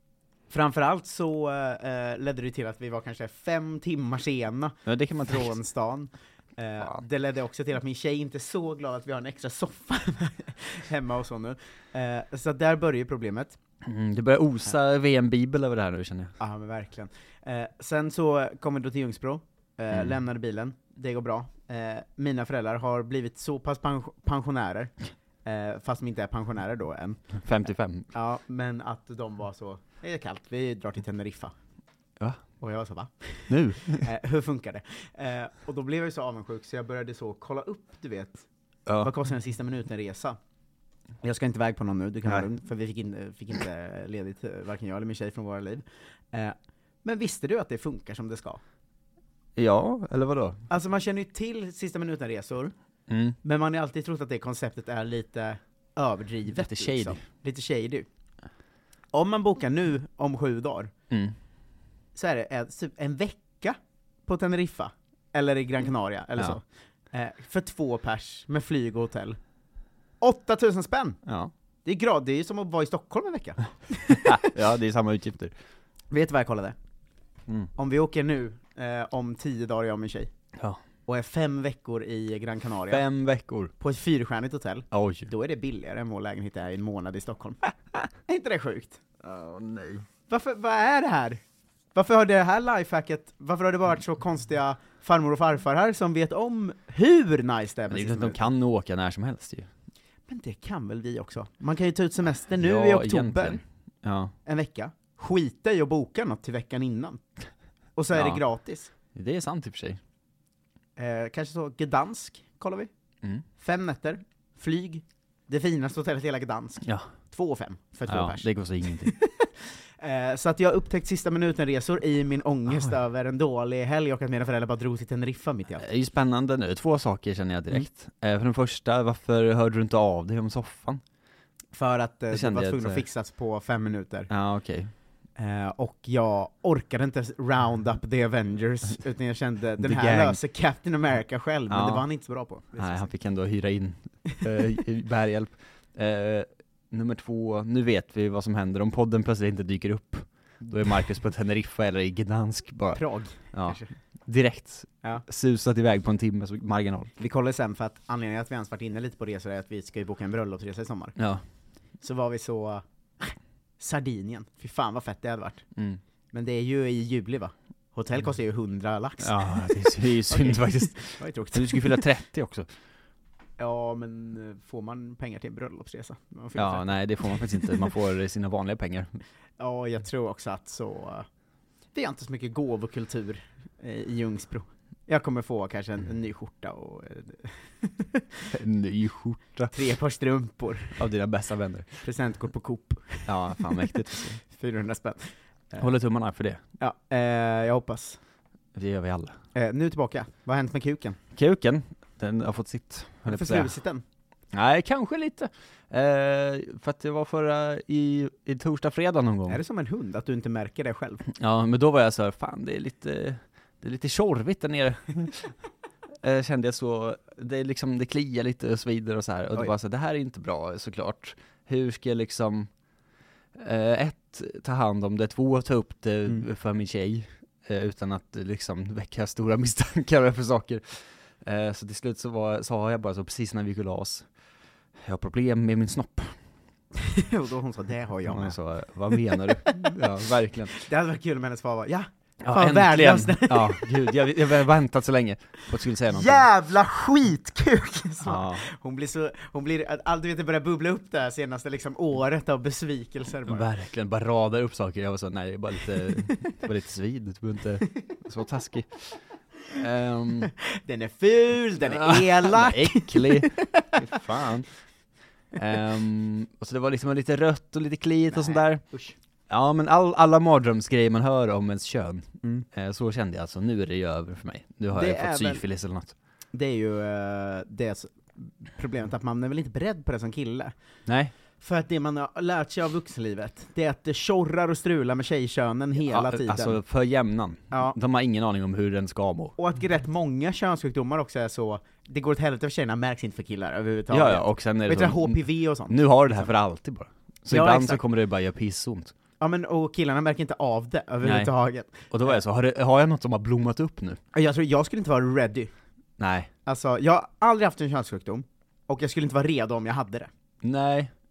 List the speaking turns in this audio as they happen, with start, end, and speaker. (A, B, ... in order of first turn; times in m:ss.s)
0:00.5-0:13.6 A
0:04.8-0:05.5 B
0:13.8-0:16.3 B
0:16.4-0:24.9 A
0:25.4-0:27.2 A
0:27.4-0:28.1 B
0:28.1-0:31.5 A
0:32.6-0:38.4 A
0:33.5-0:34.1 B
0:38.8-0:39.1 B
0:39.0-0:40.4 A
0:41.2-0:48.6 A
0:49.6-0:50.6 B
0:50.7-0:52.7 A
0:53.1-0:53.4 B
0:53.4-0:58.1 A
0:56.5-0:57.2 B
0:59.1-1:00.9 A
1:02.1-1:09.4 A
1:10.2-1:11.2 A
1:11.2-1:11.5 B
1:11.8-1:14.3 A
1:14.1-1:15.5 B
1:16.1-1:16.8 A
1:17.7-1:20.3 A
1:21.0-1:23.0 A
1:22.9-1:23.7 B
1:23.8-1:27.6 A
1:24.9-1:25.3 B
1:28.2-1:29.0 A
1:29.2-1:30.0 B
1:30.3-1:31.4 A
1:31.9-1:38.4 A
1:37.9-1:39.7 B
1:40.3-1:43.6 A
1:42.6-1:44.3 B
1:44.4-1:47.2 A
1:48.0-1:48.9 A
1:48.1-1:48.4 B
1:49.1-1:50.0 B
1:51.0-1:52.9 A
1:53.6-2:05.8 A
1:58.1-1:59.1 B
2:05.8-2:11.0 B
2:11.7-2:14.3 A
2:12.3-2:13.0 B
2:14.3-2:14.9 B
2:15.4-2:23.1 A
2:19.8-2:20.4 B
2:21.7-2:22.0 B
2:22.8-2:33.0 B
2:32.9-2:33.9 A
2:33.5-2:37.1 B
2:37.2-2:41.1 A
2:41.2-2:41.4 B
2:42.0-2:45.6 A
2:46.3-2:52.0 A
2:49.2-2:52.7 B
2:53.6-2:57.7 A
2:56.5-2:59.1 B
2:59.6-3:01.2 A
3:01.9-3:08.3 A
3:08.5-3:09.7 B
3:09.7-3:11.0 A
3:11.0-3:12.0 B
3:12.0-3:15.2 A
3:13.3-3:14.4 B
3:15.8-3:16.6 B
3:16.8-3:18.2 A
3:18.7-3:19.4 B
3:19.5-3:21.2 A
3:21.4-3:23.7 B
3:23.3-3:24.0 A
3:24.5-3:29.6 B
3:29.5-3:31.2 A
3:31.4-3:35.5 B
3:36.2-3:42.7 B
3:43.6-3:54.2 B
3:55.0-3:56.3 B
3:57.0-3:58.6 A
3:58.3-4:00.8 B
3:59.3-3:59.7 A
4:00.8-4:03.9 A
4:02.4-4:06.4 B
4:06.1-4:13.6 A
4:08.2-4:08.6 B
4:13.5-4:19.2 B
4:19.7-4:20.5 B
4:20.7-4:24.0 A
4:21.9-4:24.7 B
4:25.5-4:28.8 B
4:28.3-4:29.2 A
4:29.5-4:36.1 B
4:34.9-4:35.6 A
4:36.5-4:40.7 A
4:41.1-4:41.3 B
4:41.6-4:46.8 A
4:46.0-4:49.5 B
4:47.7-4:48.0 A
4:49.6-4:56.5 A
4:54.1-4:59.1 B
4:57.5-4:58.0 A
4:59.4-5:02.4 A
5:01.2-5:04.2 B
5:04.3-5:05.7 A
5:06.2-5:06.5 B
5:06.6-5:10.3 A
5:10.6-5:11.1 B